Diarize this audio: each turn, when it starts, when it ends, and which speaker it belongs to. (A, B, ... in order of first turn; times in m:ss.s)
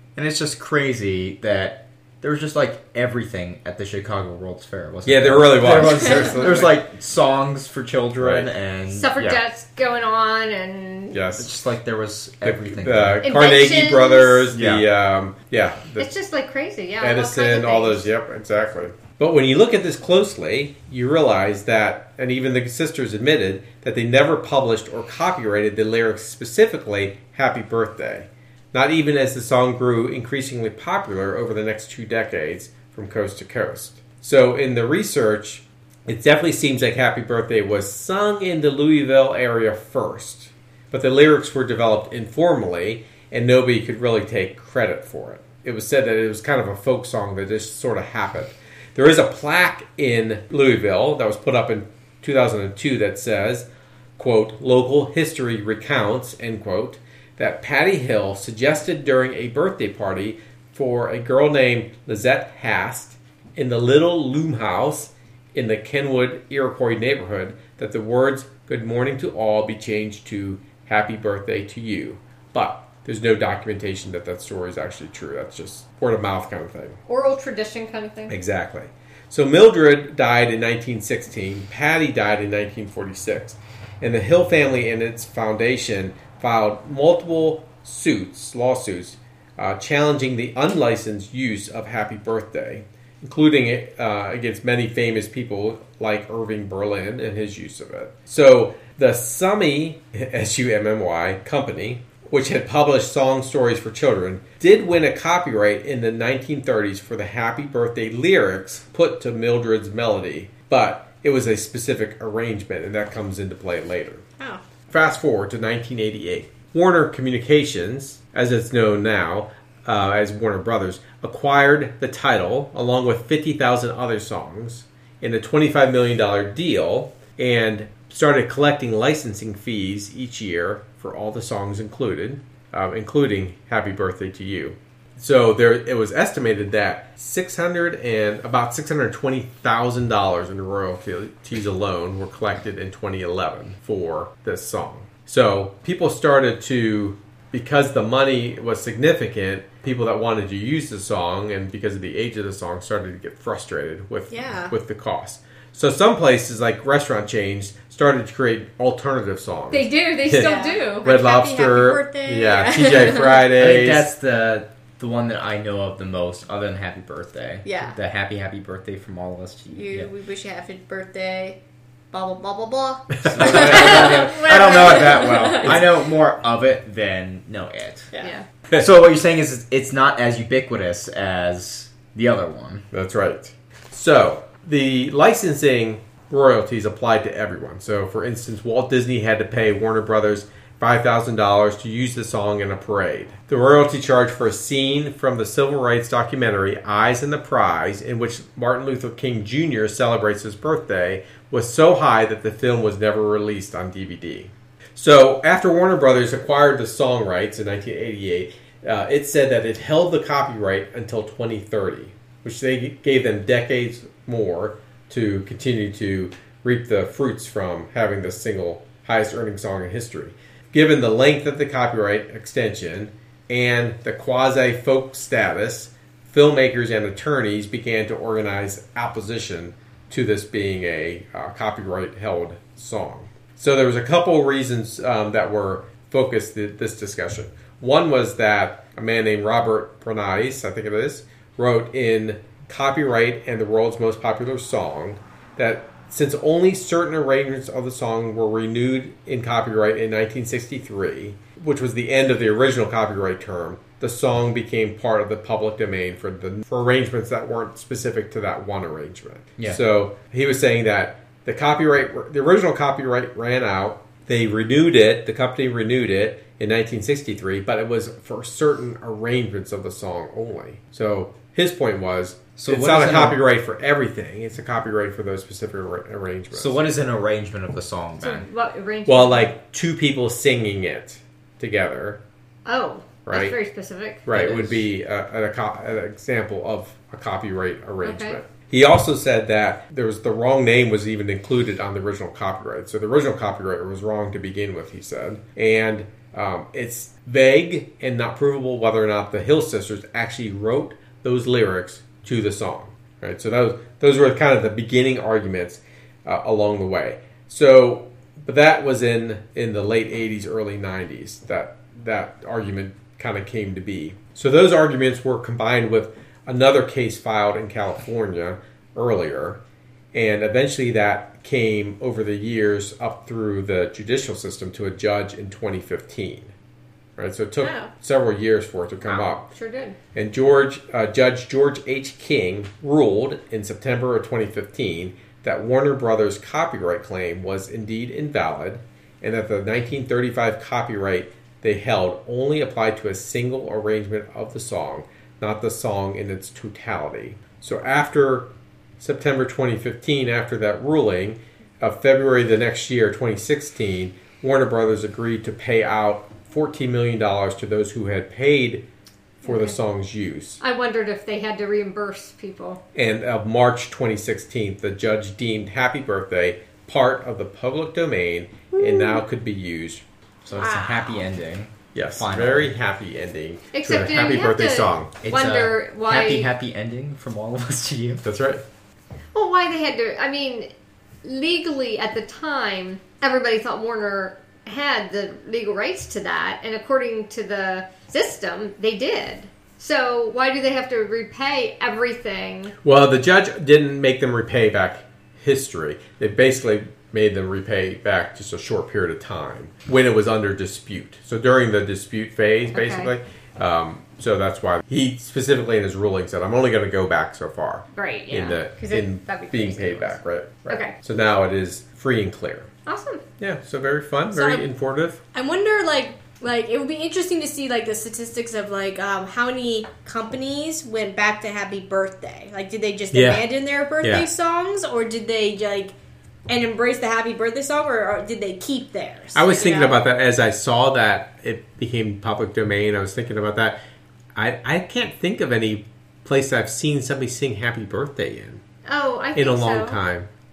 0:00.2-0:09.4 A
0:05.1-0:06.8 B
0:08.2-0:08.5 B
0:08.9-0:11.2 C
0:11.1-0:11.5 B
0:11.4-0:13.2 A
0:12.4-0:16.1 B
0:13.2-0:14.5 C
0:14.5-0:14.9 A
0:16.0-0:18.1 C
0:17.0-1:17.0 B
1:17.1-1:18.3 C
1:18.3-1:54.3 B
1:54.9-2:44.0 B
2:34.3-2:34.7 D
2:39.7-2:41.1 C
2:40.4-2:43.5 D
2:43.6-2:50.1 A
2:47.6-2:48.0 D
2:49.8-2:51.6 D
2:52.1-2:55.9 D
2:53.2-2:54.0 B
2:53.3-2:58.1 A
2:58.1-2:58.4 D
2:58.2-2:58.4 C
2:58.8-3:02.9 A
3:02.9-4:36.8 B
4:32.6-4:33.4 A
4:36.5-4:38.5 A
4:38.2-4:39.5 C
4:39.1-4:42.2 B
4:42.7-4:44.2 C
4:43.3-4:43.6 B
4:44.2-5:19.6 B
4:44.3-4:44.8 A
4:48.0-4:48.4 C
5:20.1-5:26.5 B
5:27.2-5:29.5 B
5:27.6-5:27.9 D
5:29.1-5:30.0 C
5:30.2-5:58.8 B
5:59.4-6:00.6 B
5:59.5-5:59.8 C
6:00.6-6:02.8 C
6:03.0-6:10.0 B
6:08.8-6:09.2 D
6:10.4-6:12.7 A
6:10.6-6:11.2 D
6:11.9-6:15.1 B
6:13.7-6:16.5 C
6:15.2-6:18.2 A
6:18.2-6:18.6 B
6:19.3-6:20.7 C
6:21.2-6:32.7 C
6:32.8-6:52.7 B
6:42.7-6:43.1 C
6:47.9-6:50.9 C
6:52.9-6:53.2 C
6:53.4-6:55.2 B
6:54.3-6:54.7 D
6:55.3-7:06.0 D
7:03.1-7:03.4 B
7:04.0-7:04.3 B
7:06.5-7:10.0 D
7:09.3-7:13.8 B
7:14.4-7:18.6 B
7:18.8-7:20.0 C
7:19.4-7:20.3 B